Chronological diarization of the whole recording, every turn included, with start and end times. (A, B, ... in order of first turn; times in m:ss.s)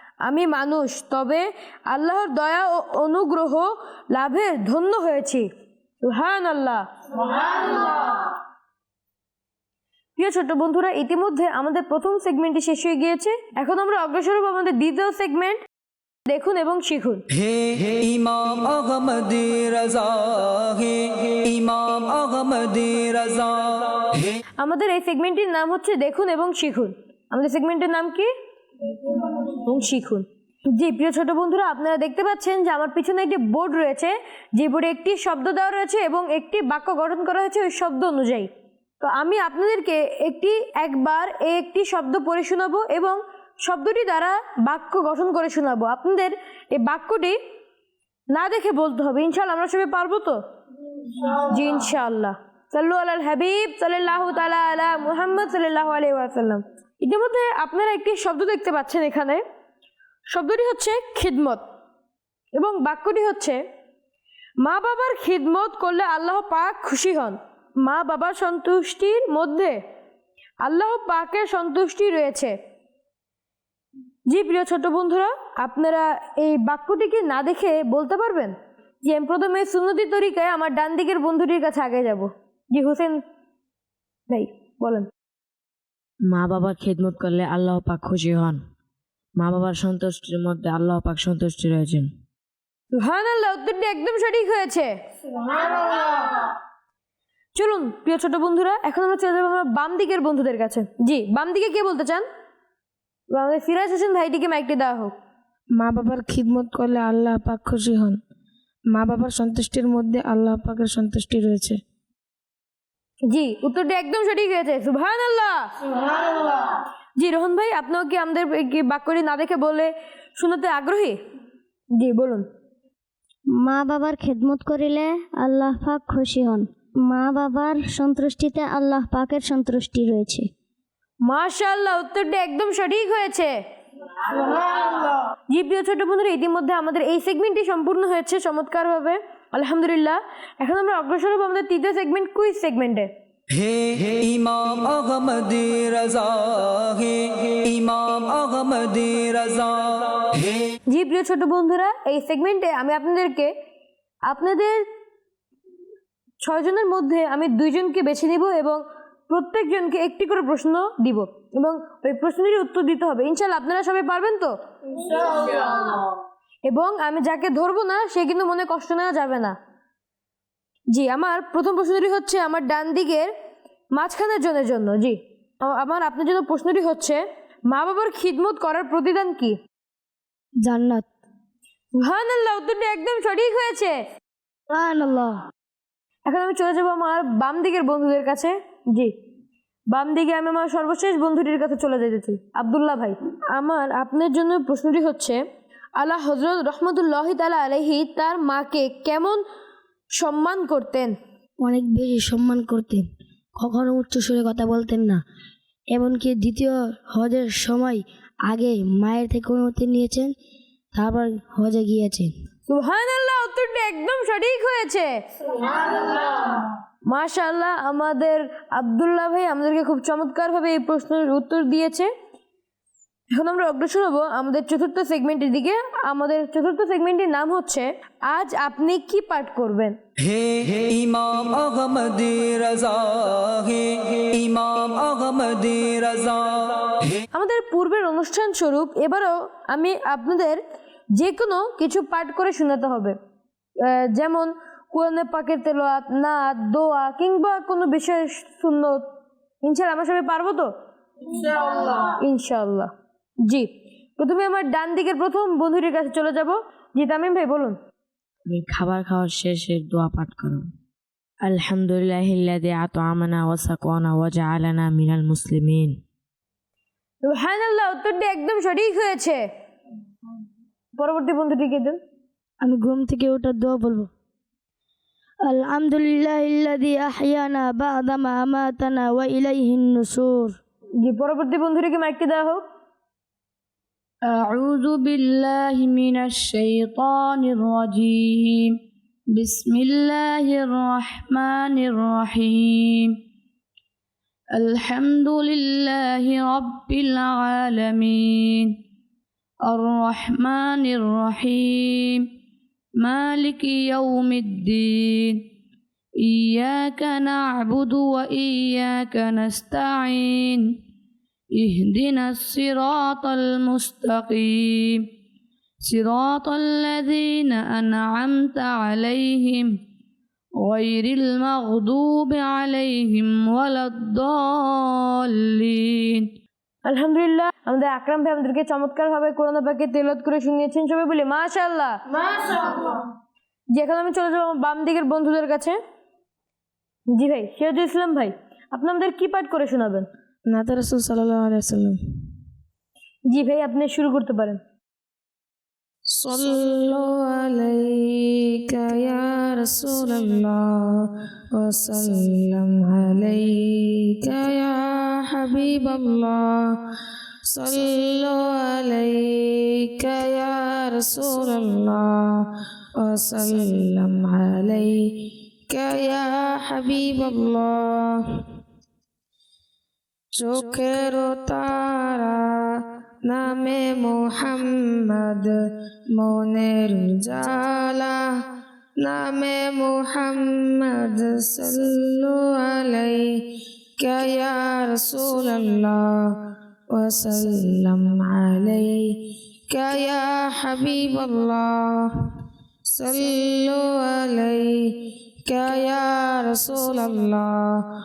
0:00.2-0:05.4 A
0:06.0-0:06.8 A
0:07.4-0:08.1 A
0:10.2-0:15.6 A
0:16.3-0:17.2 A
0:17.4-0:24.3 B
0:24.6-0:28.3 A
0:29.6-0:38.5 A
0:39.0-0:47.4 A
0:48.3-0:50.4 A
0:51.3-0:59.4 A
1:00.3-1:01.6 A
1:02.6-1:03.6 A
1:04.6-1:09.8 A
1:10.6-1:12.5 A
1:14.3-1:23.2 A
1:24.3-1:25.1 A
1:26.3-1:28.6 C
1:29.4-1:32.1 C
1:32.9-1:34.9 A
1:37.5-1:42.2 A
1:43.3-1:45.1 A
1:45.8-1:48.2 D
1:48.9-1:51.8 D
1:53.3-1:55.7 A
1:57.2-2:01.2 A
2:02.0-2:02.4 A
2:03.6-2:10.5 E
2:11.2-2:13.5 A
2:15.5-2:23.1 A
2:23.5-2:30.5 B
2:30.9-2:33.5 A
2:34.3-2:34.8 A
2:36.4-2:44.5 A
2:45.1-2:46.0 A
2:46.6-2:49.6 A
2:50.9-2:53.3 A
2:53.9-2:59.6 A
3:00.6-3:01.0 F
3:02.0-3:04.0 A
3:04.7-3:05.4 F
3:06.3-3:09.1 A
3:09.9-3:15.4 A
3:16.0-3:19.4 A
3:20.2-3:21.1 A
3:21.6-3:23.0 F
3:23.6-3:25.2 F
3:25.9-3:30.3 F
3:30.9-3:32.3 F
3:32.7-3:35.1 A
3:35.9-3:36.3 A
3:37.1-3:42.1 A
3:43.4-3:50.0 A
3:50.2-3:57.2 B
3:57.3-4:00.6 A
4:01.2-4:03.1 A
4:03.8-4:09.0 A
4:09.6-4:10.7 A
4:11.4-4:12.9 A
4:13.5-4:17.8 A
4:18.4-4:20.7 C
4:21.4-4:26.0 C
4:27.2-4:29.4 A
4:31.0-4:32.0 A
4:32.6-4:34.1 F
4:35.5-4:40.6 F
4:41.0-4:42.6 A
4:44.3-4:48.4 G
4:49.4-4:52.6 G
4:54.6-4:58.1 G
4:59.7-5:01.6 G
5:03.0-5:04.9 G
5:06.5-5:10.6 G
5:11.6-5:14.5 G
5:15.9-5:19.6 G
5:20.6-5:24.5 G
5:25.2-5:26.2 G
5:26.8-5:32.0 A
5:33.7-5:35.8 A
5:37.1-5:40.1 A
5:40.5-5:42.0 D
5:43.3-5:44.6 A
5:46.2-5:56.7 D
5:57.5-6:02.4 D
6:03.0-6:08.4 D
6:10.4-6:12.6 D
6:13.2-6:15.5 D
6:16.2-6:18.2 D
6:19.0-6:23.4 D
6:24.0-6:26.3 D
6:26.9-6:29.1 D
6:29.7-6:32.1 D
6:32.9-6:34.9 D
6:35.5-6:37.8 D